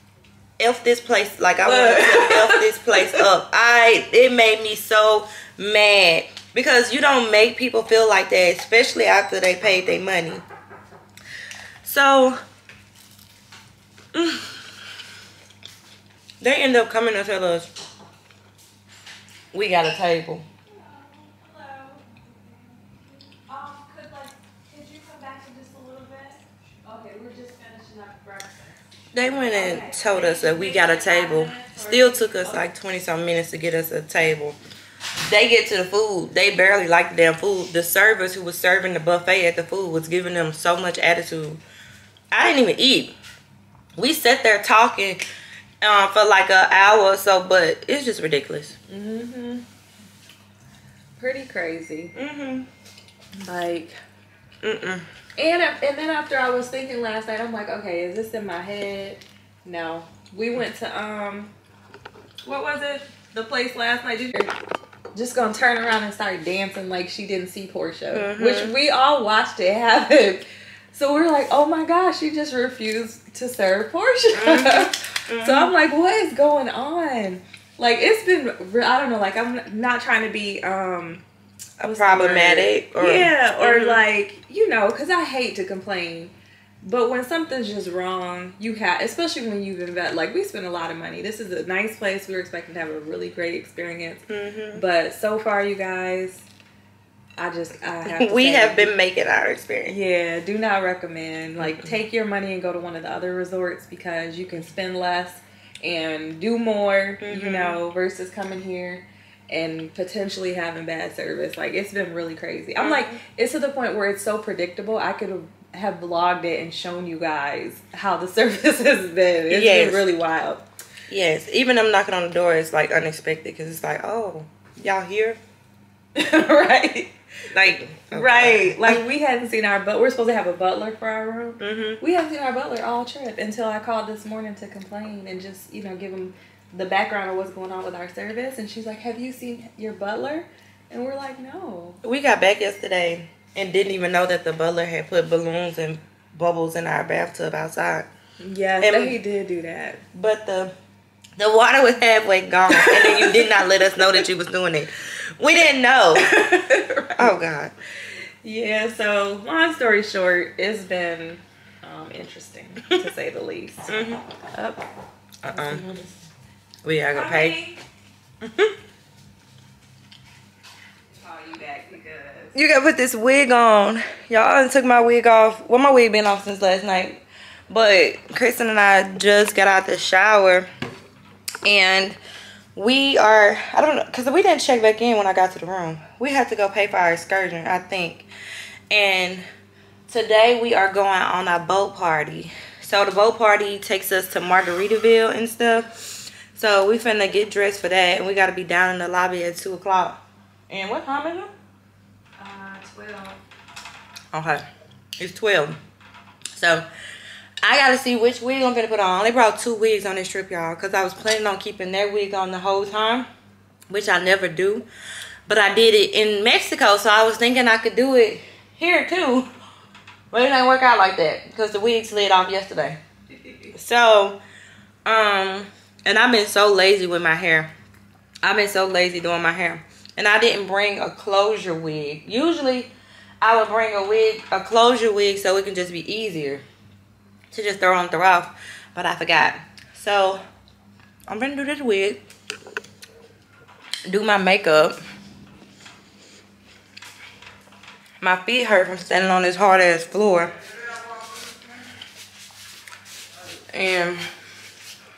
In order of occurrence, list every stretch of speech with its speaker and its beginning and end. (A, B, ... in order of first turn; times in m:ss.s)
0:00.6-0:10.4 A
0:11.8-0:12.4 A
0:14.1-0:14.5 A
0:16.4-0:17.7 A
0:19.5-0:20.4 A
0:20.7-0:28.8 B
0:29.1-0:34.6 A
0:29.3-0:32.6 B
0:35.2-0:41.6 A
0:42.3-0:43.1 A
0:44.0-0:45.2 A
0:45.8-0:48.8 A
0:48.9-0:49.6 B
0:51.2-0:52.1 B
0:52.1-0:52.7 A
0:53.4-0:53.9 B
0:54.6-0:55.0 A
0:55.4-1:01.5 B
1:02.4-1:04.5 B
1:05.1-1:21.2 B
1:08.1-1:08.8 A
1:14.3-1:15.7 A
1:21.8-1:24.0 A
1:21.8-1:26.3 B
1:26.8-1:36.4 B
1:34.3-1:34.8 A
1:37.4-1:38.9 B
1:38.0-1:40.0 A
1:39.9-2:00.6 B
1:41.6-1:41.9 A
1:47.2-1:47.8 A
1:52.8-1:53.2 A
1:59.5-2:00.1 A
2:01.1-2:05.4 A
2:06.1-2:07.1 B
2:07.5-2:09.0 A
2:08.1-2:22.0 B
2:11.6-2:12.0 A
2:22.0-2:28.1 A
2:28.4-2:30.0 B
2:28.8-2:29.2 A
2:30.1-2:30.7 A
2:31.4-2:36.4 A
2:32.8-2:33.4 B
2:36.3-2:37.3 B
2:37.2-2:37.7 A
2:38.4-2:43.9 B
2:43.9-2:44.2 A
2:44.5-2:44.8 B
2:45.4-2:45.9 A
2:45.5-2:46.2 B
2:46.8-2:47.6 A
2:47.1-2:47.8 B
2:51.2-2:52.5 B
2:52.5-3:00.7 A
3:01.6-3:02.2 A
3:02.7-3:08.3 A
3:08.9-3:09.4 A
3:10.1-3:15.9 A
3:16.5-3:21.5 A
3:22.4-3:23.4 B
3:24.3-3:24.6 A
3:25.2-3:25.8 A
3:26.5-3:26.8 A
3:27.6-3:33.3 A
3:33.9-3:34.9 A
3:35.5-3:39.5 A
3:40.3-3:43.0 A
3:43.4-3:43.7 B
3:43.7-3:44.4 A
3:45.0-3:47.7 A
3:48.4-3:56.6 A
3:57.5-4:00.4 A
4:01.3-4:02.2 A
4:04.1-4:05.0 A
4:08.2-4:10.5 A
4:13.7-4:14.2 A